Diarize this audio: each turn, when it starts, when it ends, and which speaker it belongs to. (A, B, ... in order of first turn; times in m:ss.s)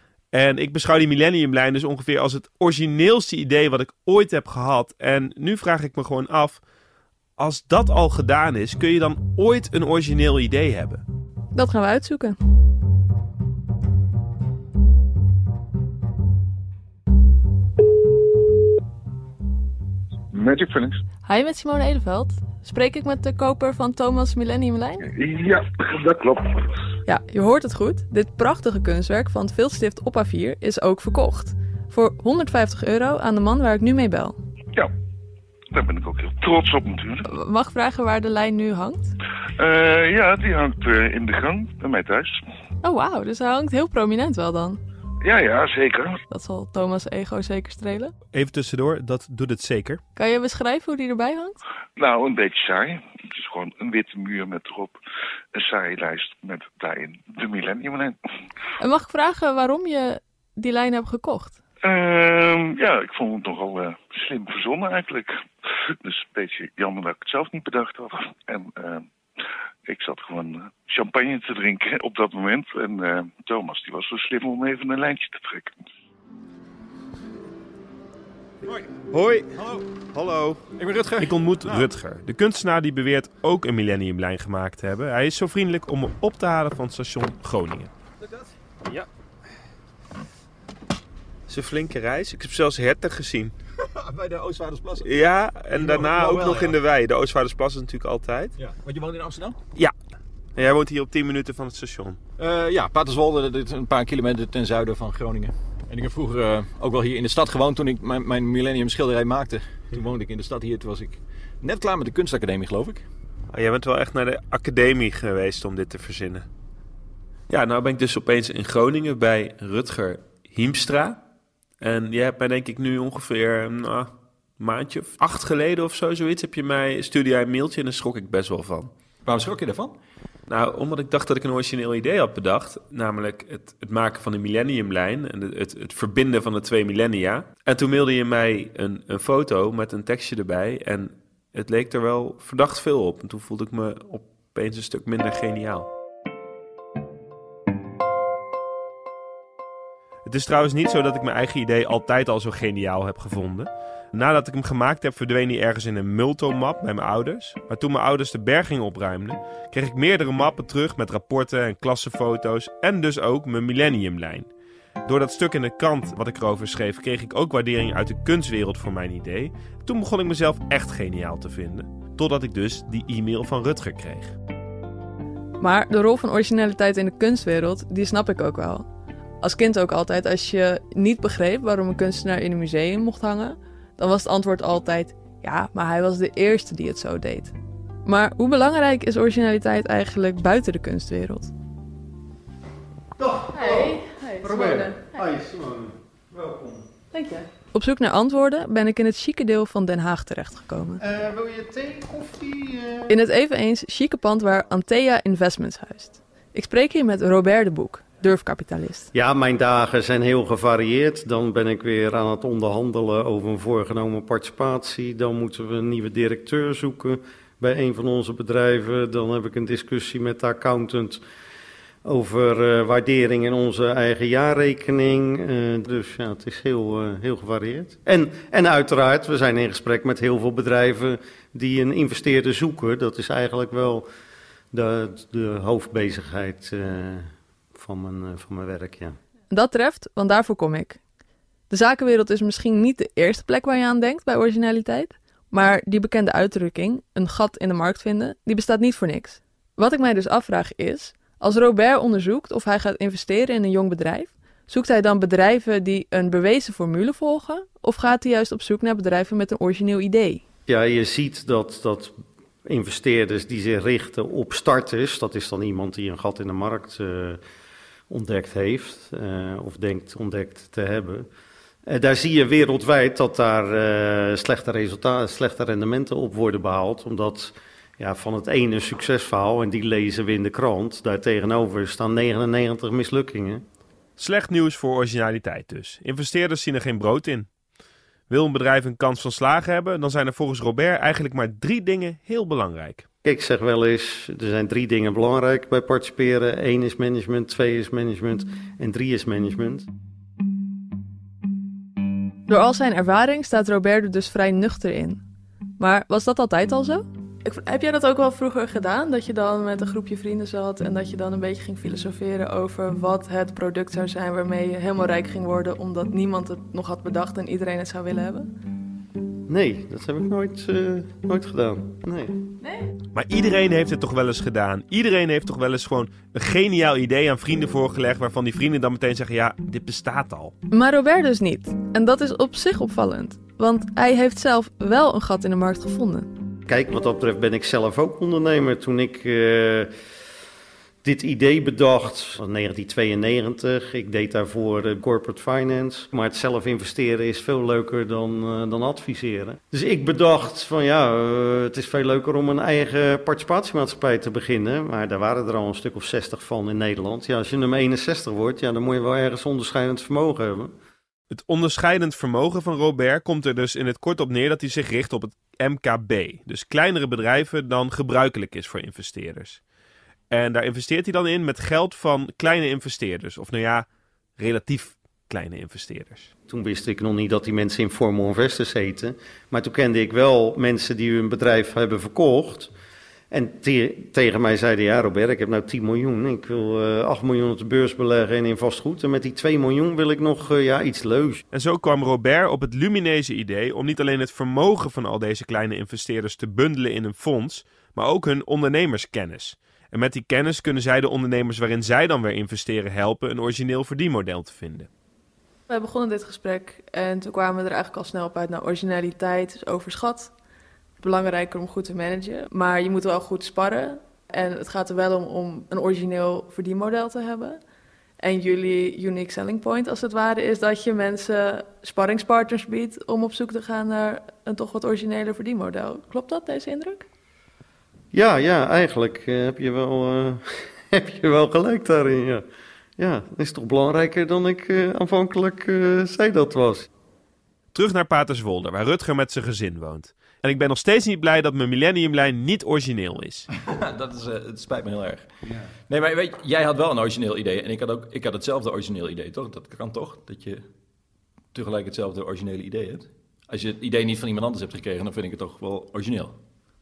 0:00.3-0:06.6 A
0:07.4-0:11.0 A
0:11.5-0:12.4 B
0:20.3-0:21.0 C
0:21.2-0:25.0 B
0:25.1-0:26.6 C
0:27.1-0:34.4 B
0:35.7-0:37.3 C
0:37.3-0:39.1 B
0:39.6-0:42.3 C
0:42.8-0:44.8 B
0:45.2-0:46.2 C
0:46.3-0:48.1 B
0:48.3-0:50.0 A
0:50.2-0:51.6 B
0:52.0-0:54.9 C
0:55.6-0:58.2 C
0:58.8-1:01.6 B
1:01.8-1:05.3 C
1:06.0-1:09.0 C
1:09.9-1:15.7 C
1:18.7-1:19.0 D
1:19.1-1:19.5 A
1:19.6-1:19.8 D
1:20.0-1:20.6 A
1:20.8-1:21.9 D
1:21.2-1:27.9 A
1:28.2-1:28.5 D
1:31.5-1:33.5 A
1:33.8-1:35.2 D
1:35.0-1:38.6 A
1:35.7-1:36.8 D
1:38.6-1:39.6 D
1:40.6-1:42.2 A
1:42.4-1:53.0 D
1:53.5-1:56.5 A
1:57.5-2:01.2 A
2:01.8-2:08.9 A
2:09.2-2:10.0 D
2:10.5-2:25.9 A
2:30.3-2:44.5 A
2:45.1-2:54.4 A
2:55.6-2:58.8 B
2:59.4-3:07.5 B
3:08.0-3:11.5 B
3:13.2-3:16.8 E
3:13.5-3:15.2 B
3:17.1-3:21.0 B
3:21.0-3:23.1 E
3:23.1-3:29.1 B
3:29.1-3:41.2 E
3:42.0-3:54.1 E
3:54.7-3:59.2 E
3:59.5-4:01.0 B
4:01.7-4:20.4 B
4:20.7-4:27.4 E
4:28.1-4:31.3 E
4:31.9-4:43.6 E
4:44.2-4:47.5 A
4:48.3-4:53.0 A
4:53.2-4:59.9 E
5:02.5-5:05.2 B
5:05.8-5:18.5 B
5:19.5-5:22.4 E
5:22.6-5:22.9 B
5:23.1-5:30.5 A
5:30.7-5:36.3 B
5:36.7-5:39.9 E
5:41.0-6:00.7 E
6:01.3-6:09.6 A
6:10.3-6:13.9 A
6:14.4-6:16.3 A
6:16.5-6:22.7 E
6:23.3-6:31.4 E
6:31.5-6:44.9 A
6:45.7-6:50.3 B
6:51.0-6:57.6 B
6:58.2-7:07.1 B
7:08.1-7:12.4 E
7:13.0-7:16.9 E
7:17.7-7:23.5 A
7:23.6-7:25.3 D
7:25.9-7:30.6 D
7:31.5-7:36.4 D